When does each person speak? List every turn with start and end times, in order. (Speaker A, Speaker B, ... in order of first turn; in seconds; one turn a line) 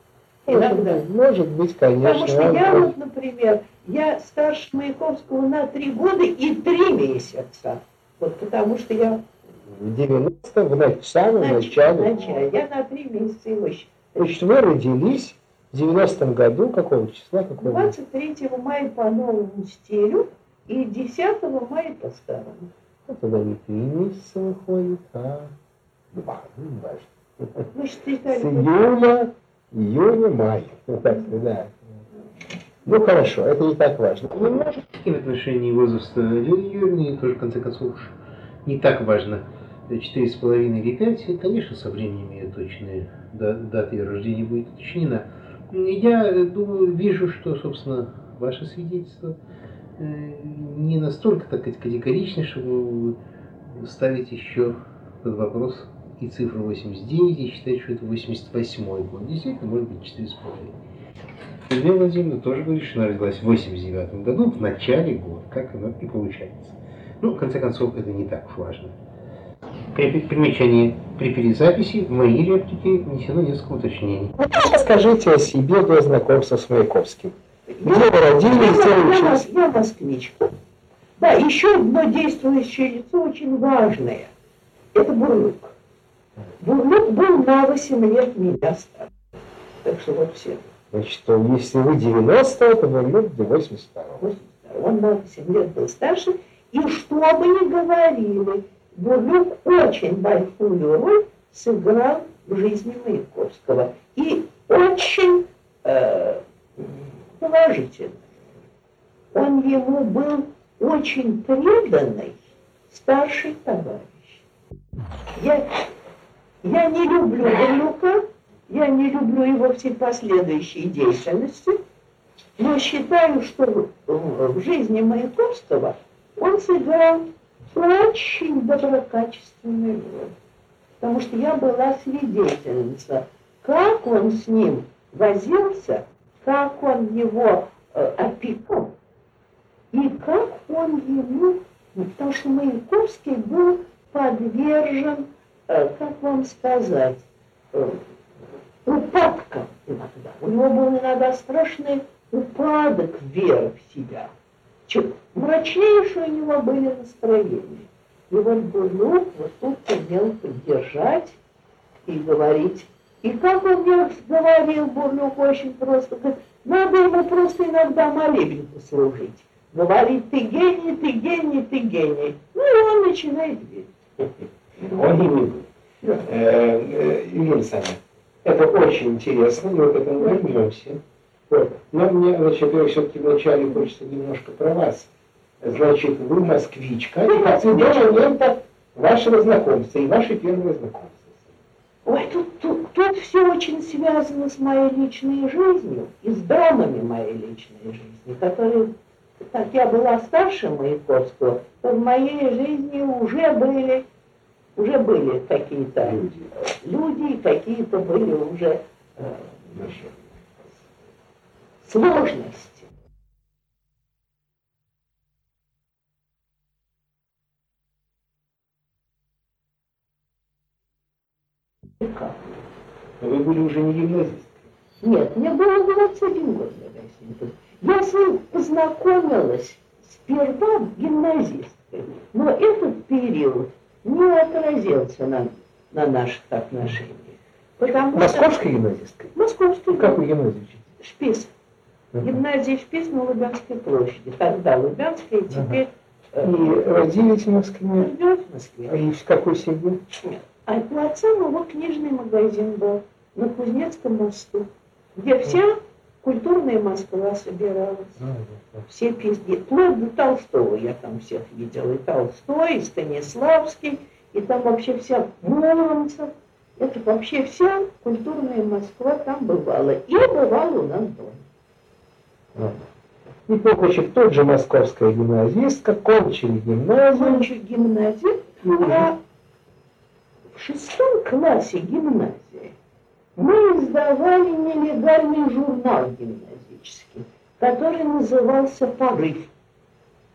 Speaker A: 0.5-2.9
Speaker B: 0.5-1.1
Speaker B: 2.0-9.2
Speaker A: 9.7-12.5
Speaker B: 11.4-14.2
Speaker A: 14.1-17.9
Speaker B: 17.6-22.7
Speaker A: 23.1-25.5
Speaker A: 26.1-27.6
Speaker B: 27.7-28.7
Speaker A: 28.3-31.8
Speaker A: 32.8-34.8
Speaker C: 34.7-49.4
Speaker C: 50.0-53.2
Speaker C: 53.7-60.7
Speaker C: 61.7-69.0
Speaker C: 69.9-74.3
Speaker A: 74.4-79.5
Speaker B: 77.7-80.5
Speaker B: 81.2-84.3
Speaker B: 84.9-85.7
Speaker B: 86.6-89.1
Speaker B: 89.8-90.7
Speaker A: 90.9-94.2
Speaker B: 94.2-108.2
Speaker B: 109.3-112.4
Speaker B: 112.9-114.4
Speaker B: 115.3-115.8
Speaker B: 116.6-121.8
Speaker B: 122.6-130.3
Speaker B: 131.0-138.9
Speaker B: 139.9-148.0
Speaker B: 148.8-154.3
Speaker B: 154.9-161.4
Speaker B: 162.1-174.1
Speaker B: 174.8-175.0
Speaker A: 174.8-175.7
Speaker A: 176.2-185.1
Speaker A: 185.6-191.4
Speaker B: 187.2-188.3
Speaker B: 192.1-204.1
Speaker B: 204.8-210.1
Speaker A: 206.0-206.5
Speaker B: 211.8-212.8
Speaker B: 222.0-222.4
Speaker A: 223.2-224.5
Speaker B: 225.0-238.5
Speaker A: 238.1-239.3
Speaker B: 239.3-240.2
Speaker A: 239.9-240.8
Speaker B: 241.0-241.5
Speaker A: 242.1-242.4
Speaker B: 242.2-246.7
Speaker A: 245.5-245.8
Speaker A: 246.4-248.1
Speaker B: 248.0-249.0
Speaker A: 248.9-250.0
Speaker B: 250.2-258.3
Speaker A: 258.2-258.7
Speaker B: 258.9-271.4
Speaker A: 273.5-277.5
Speaker B: 277.1-279.2
Speaker A: 278.6-279.1
Speaker B: 280.5-282.7
Speaker B: 283.4-289.5